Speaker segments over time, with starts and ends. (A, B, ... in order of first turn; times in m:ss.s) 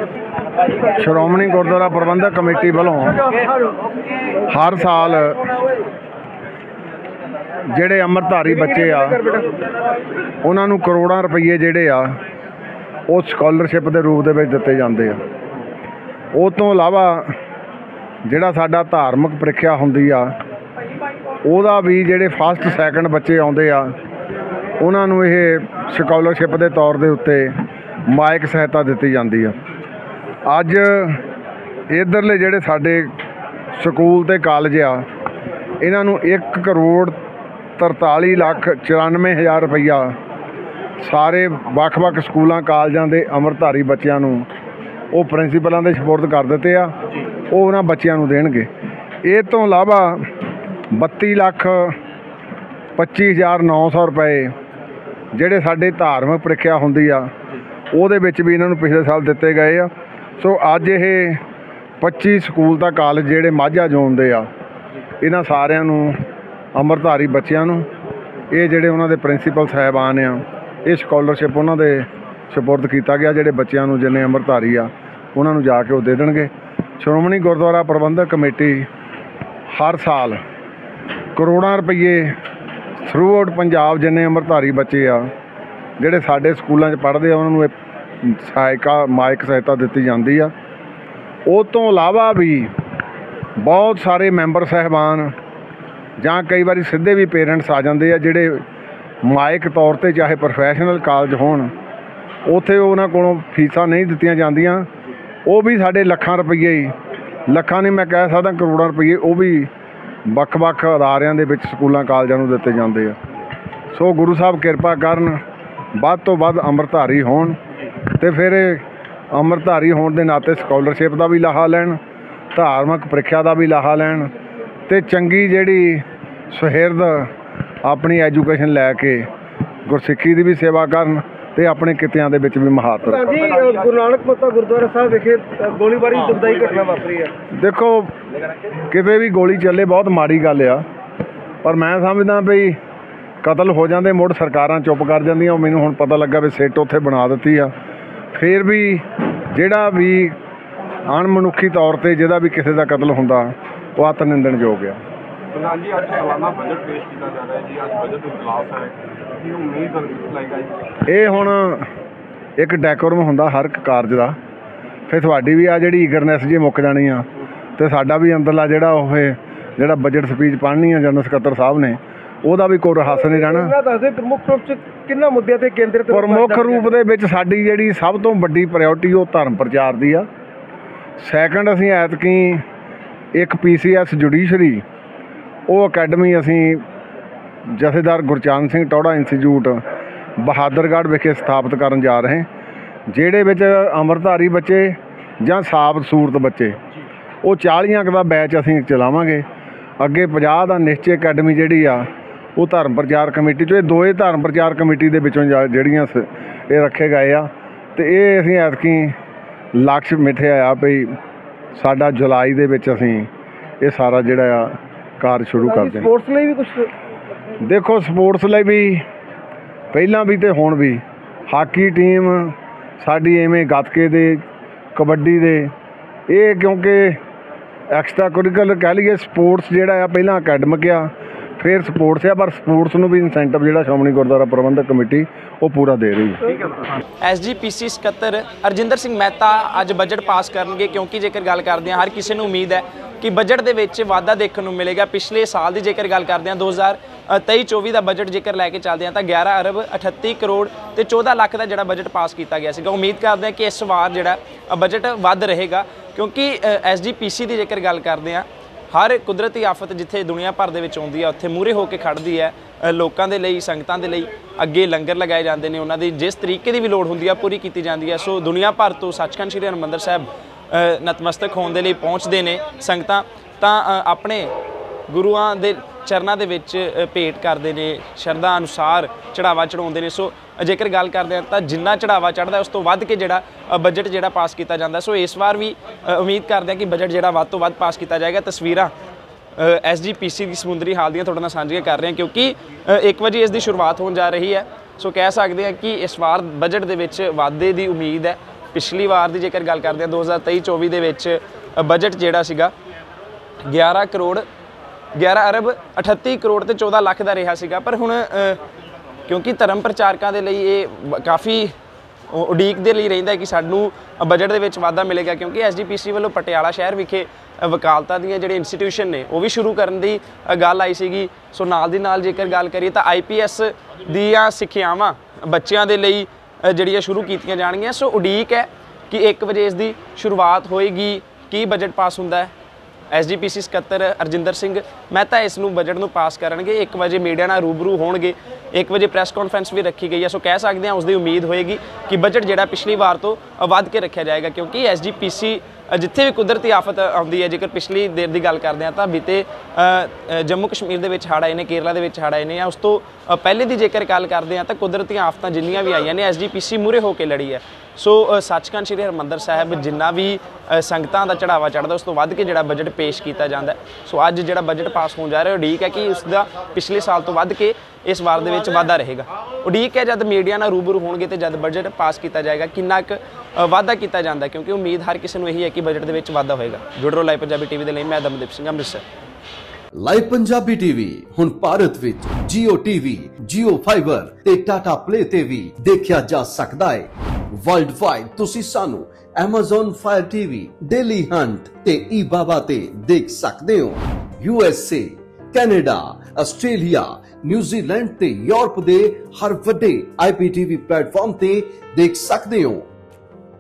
0:01.0-0:03.3 A
0:03.2-0:03.8 B
0:04.5-0:05.5 A
0:07.7-0:09.3 A
0:08.6-0:09.5 B
0:10.4-0:12.2 A
0:13.1-0:15.2 A
0:16.4-0:17.4 A
0:18.3-0:20.4 A
0:21.5-0:24.0 A
0:24.8-0:27.6 A
0:28.1-0:29.6 A
0:30.5-0:31.2 A
0:31.9-0:33.1 A
0:33.8-0:35.0 A
0:35.8-0:37.2 A
0:37.8-0:40.2 A
0:41.0-0:44.5 A
0:45.1-0:46.9 A
0:47.5-0:48.7 A
0:49.2-0:50.3 A
0:50.9-0:52.0 A
0:53.0-0:54.5 A
0:55.3-0:57.3 A
0:57.9-1:01.4 A
1:02.0-1:04.5 A
1:05.2-1:06.2 A
1:06.8-1:07.9 A
1:08.5-1:18.9 A
1:19.8-1:20.4 A
1:21.4-1:22.4 A
1:23.0-1:25.3 A
1:26.0-1:30.5 A
1:31.5-1:32.7 A
1:33.6-1:35.3 A
1:36.2-1:38.6 A
1:39.2-1:41.7 A
1:42.5-1:44.9 A
1:45.5-1:46.9 A
1:47.5-1:49.7 A
1:50.3-1:53.2 A
1:53.9-1:55.4 A
1:56.0-1:57.6 A
1:58.2-1:58.8 A
1:59.3-2:02.0 A
2:02.5-2:04.3 A
2:04.9-2:07.3 A
2:07.8-2:09.3 A
2:09.9-2:13.3 A
2:13.1-2:17.3 B
2:17.5-2:18.1 A
2:18.9-2:20.8 A
2:21.6-2:22.7 A
2:23.4-2:27.7 A
2:28.3-2:30.4 A
2:31.1-2:35.0 A
2:35.5-2:40.9 C
2:41.1-2:41.9 A
2:42.6-2:44.4 A
2:45.1-2:47.3 A
2:47.8-2:53.8 A
2:53.1-2:57.0 B
2:56.1-3:00.3 A
3:01.2-3:02.6 A
3:03.4-3:04.8 A
3:05.7-3:06.8 A
3:07.7-3:09.8 A
3:10.4-3:12.5 A
3:13.1-3:16.8 A
3:17.4-3:19.4 A
3:20.0-3:29.2 A
3:29.8-3:31.1 A
3:31.8-3:33.3 A
3:33.8-3:36.1 A
3:35.6-3:36.9 B
3:37.6-3:39.0 A
3:39.9-3:44.4 A
3:45.0-3:45.7 A
3:46.3-3:47.2 A
3:47.9-3:56.6 A
3:57.2-4:34.5 D
4:35.1-4:48.9 D
4:49.6-5:02.7 D
5:03.6-5:04.4 D
5:05.2-5:08.6 D
5:09.3-5:11.7 D
5:12.3-5:32.5 D
5:33.1-6:19.0 D
6:19.9-6:42.9 E